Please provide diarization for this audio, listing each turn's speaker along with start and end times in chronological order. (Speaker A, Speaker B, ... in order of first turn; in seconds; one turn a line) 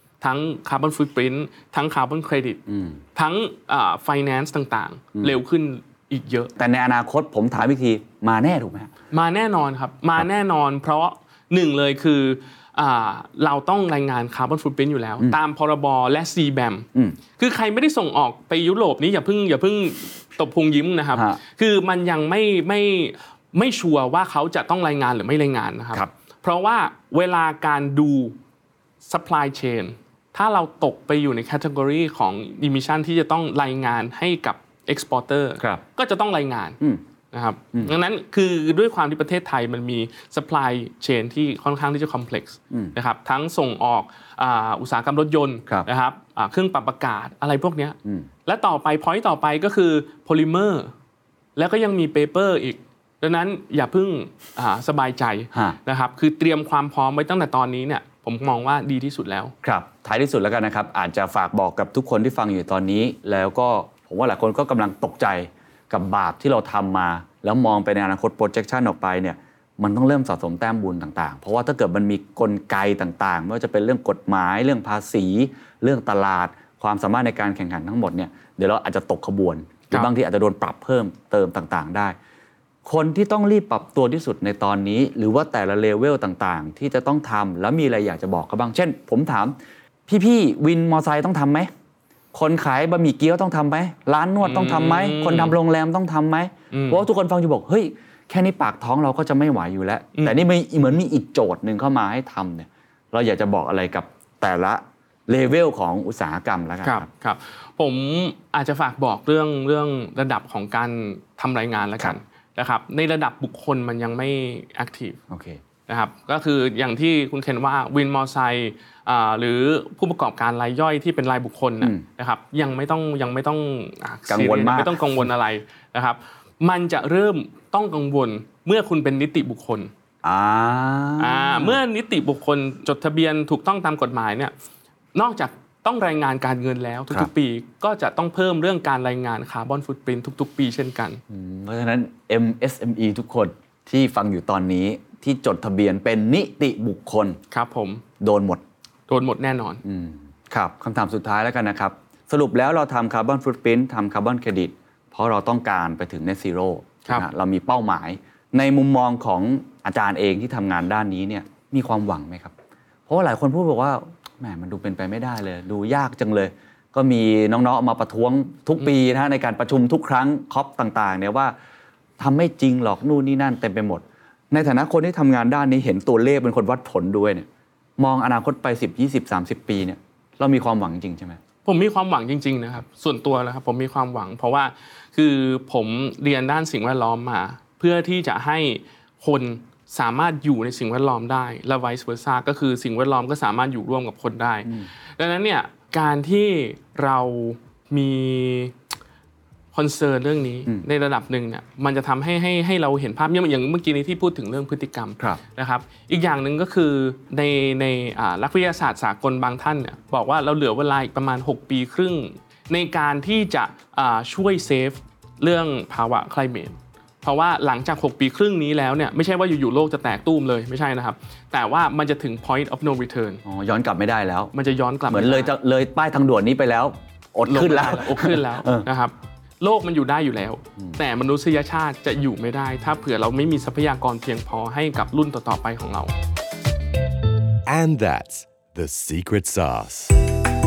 Speaker A: 0.2-2.6
Speaker B: 2.7-3.0
Speaker A: 3.1-6.5
Speaker B: 6.6-8.9
Speaker A: 9.1-28.4
Speaker B: 21.1-21.4
Speaker A: 29.1-36.8
Speaker A: 37.3-50.9
Speaker A: 51.6-59.5
Speaker B: 59.6-82.2
Speaker B: 82.8-89.6
Speaker B: 90.1-91.7
Speaker B: 92.3-107.1
Speaker A: 94.4-95.6
Speaker A: 96.7-97.0
Speaker A: 106.8-115.2
Speaker B: 115.3-115.6
Speaker A: 115.9-129.9
Speaker B: 124.3-125.1
Speaker B: 130.2-131.8
Speaker A: 131.2-134.5
Speaker A: 135.2-141.2
Speaker B: 141.3-147.4
Speaker A: 147.5-148.0
Speaker B: 148.2-148.6
Speaker A: 149.1-149.8
Speaker B: 149.8-162.5
Speaker B: 163.1-171.5
Speaker B: 172.2-177.5
Speaker B: 178.0-181.4
Speaker A: 181.7-198.8
Speaker A: 199.7-223.4
Speaker B: 223.4-224.5
Speaker A: 224.5-225.5
Speaker B: 225.1-228.9
Speaker A: 227.5-236.1
Speaker C: 237.7-240.2